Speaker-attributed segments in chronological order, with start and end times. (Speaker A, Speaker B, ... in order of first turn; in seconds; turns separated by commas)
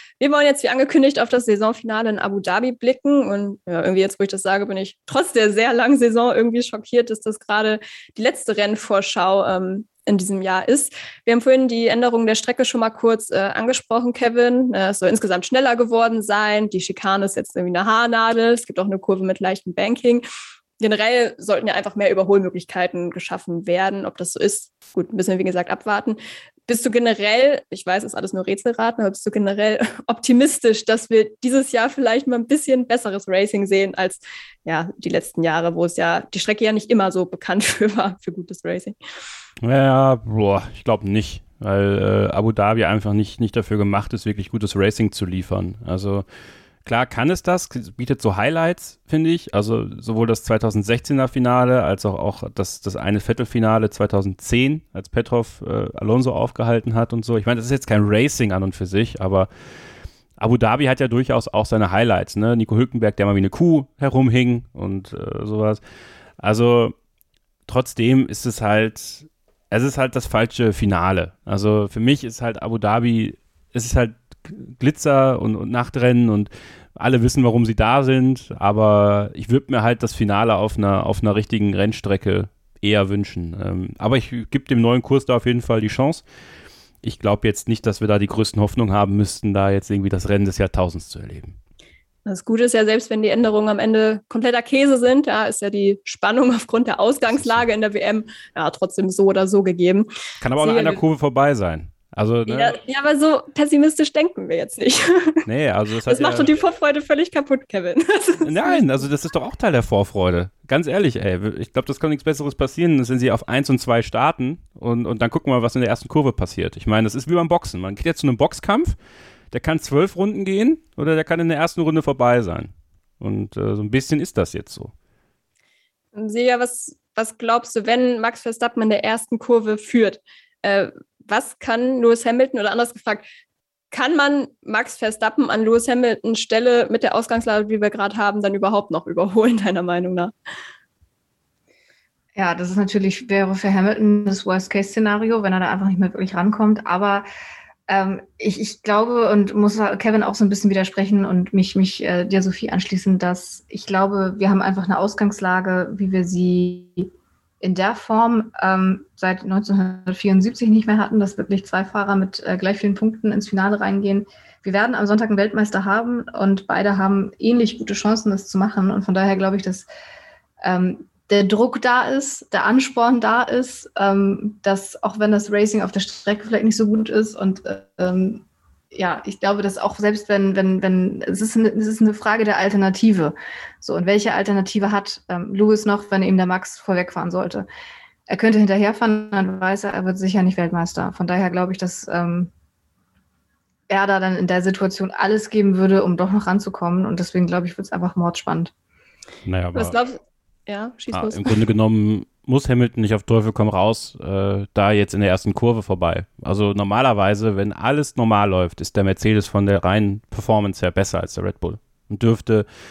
Speaker A: 0.2-20.2, Speaker A: 20.8-39.0, Speaker B: 39.6-46.2, Speaker B: 46.8-59.5, Speaker B: 60.4-65.8, Speaker B: 66.4-66.9, Speaker B: 67.7-86.2, Speaker B: 87.0-91.5, Speaker A: 92.2-101.0, Speaker B: 97.3-97.6, Speaker B: 100.4-102.8, Speaker A: 102.5-105.4, Speaker B: 105.5-106.5, Speaker A: 106.1-109.0, Speaker B: 108.4-119.0, Speaker B: 119.5-124.9, Speaker A: 126.1-133.3, Speaker A: 133.9-140.3, Speaker C: 142.3-147.2, Speaker C: 147.9-157.1, Speaker C: 157.6-169.9, Speaker C: 170.6-187.7, Speaker C: 188.3-192.5, Speaker C: 193.9-198.7, Speaker B: 199.4-199.9, Speaker A: 199.7-201.6, Speaker B: 201.1-212.7